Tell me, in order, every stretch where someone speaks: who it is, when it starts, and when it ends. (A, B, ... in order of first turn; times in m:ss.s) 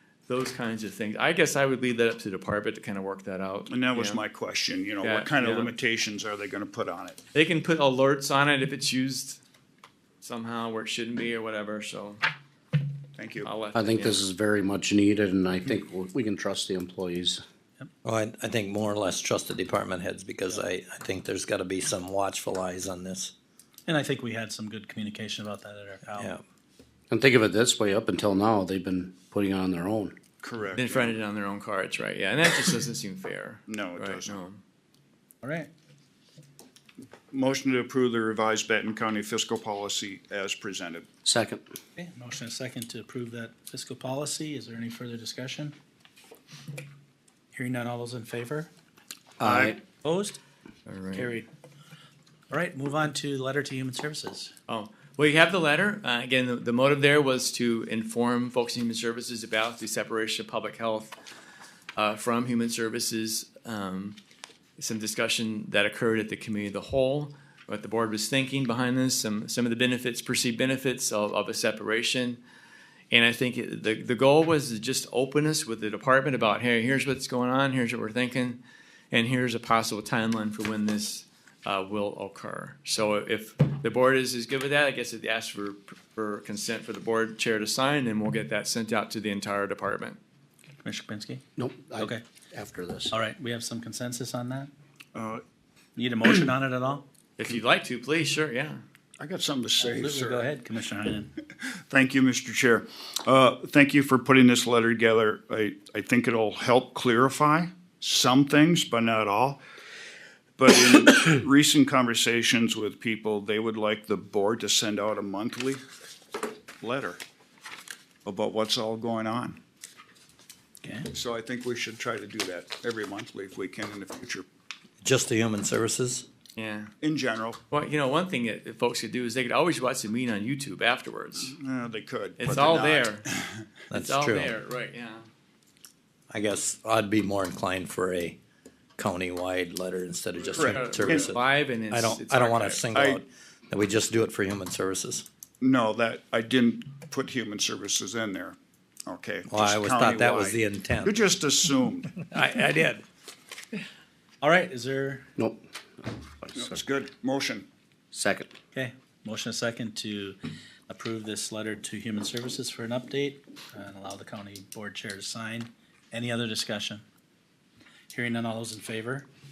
0:00.3-0:04.2 A
0:03.7-0:07.2 B
0:05.0-0:05.7 A
0:07.3-0:09.4 A
0:10.2-0:12.2 A
0:13.2-0:13.5 B
0:13.4-0:14.2 A
0:13.7-0:17.4 C
0:18.0-0:23.3 D
0:23.9-0:26.3 E
0:27.1-0:30.1 C
0:30.4-0:31.2 B
0:30.8-0:34.6 A
0:33.7-0:34.4 B
0:35.4-0:35.7 E
0:37.3-0:41.0 B
0:41.2-0:41.6 C
0:42.0-0:45.8 E
0:47.5-0:48.7 E
0:49.4-0:49.8 C
0:49.4-0:49.8 B
0:49.8-0:50.4 E
0:50.9-0:51.3 A
0:51.1-0:51.5 E
0:52.5-0:54.5 E
0:54.7-1:01.2 A
1:02.0-1:04.2 A
1:04.8-1:12.4 A
1:13.1-1:18.6 A
1:19.1-1:30.2 A
1:30.8-1:31.4 E
1:31.6-1:33.1 C
1:33.1-1:34.7 E
1:35.1-1:35.4 B
1:36.0-1:37.0 E
1:37.4-1:38.8 A
1:39.2-1:40.6 B
1:39.8-1:41.3 E
1:41.6-1:49.6 B
1:50.6-1:55.8 B
1:56.8-1:57.2 B
1:58.2-1:59.6 B
2:00.8-2:01.1 E
2:01.1-2:04.4 B
2:05.0-2:06.2 D
2:06.6-2:06.9 A
2:07.0-2:07.6 B
2:07.7-2:11.5 A
2:11.5-2:13.6 B
2:12.4-2:13.2 A
2:13.9-2:14.5 D
2:13.9-2:15.2 A
2:16.3-2:18.4 D
2:19.0-2:25.2 D
2:20.5-2:22.9 A
2:20.6-2:21.3 B
2:22.9-2:23.2 B
2:25.6-2:32.2 B
2:29.5-2:31.2 D
2:32.3-2:33.0 D
2:34.4-2:35.3 E
2:36.4-2:36.8 C
2:36.5-2:37.6 B
2:38.1-2:38.5 C
2:38.7-2:40.4 E
2:40.9-2:47.0 E
2:48.1-2:49.2 E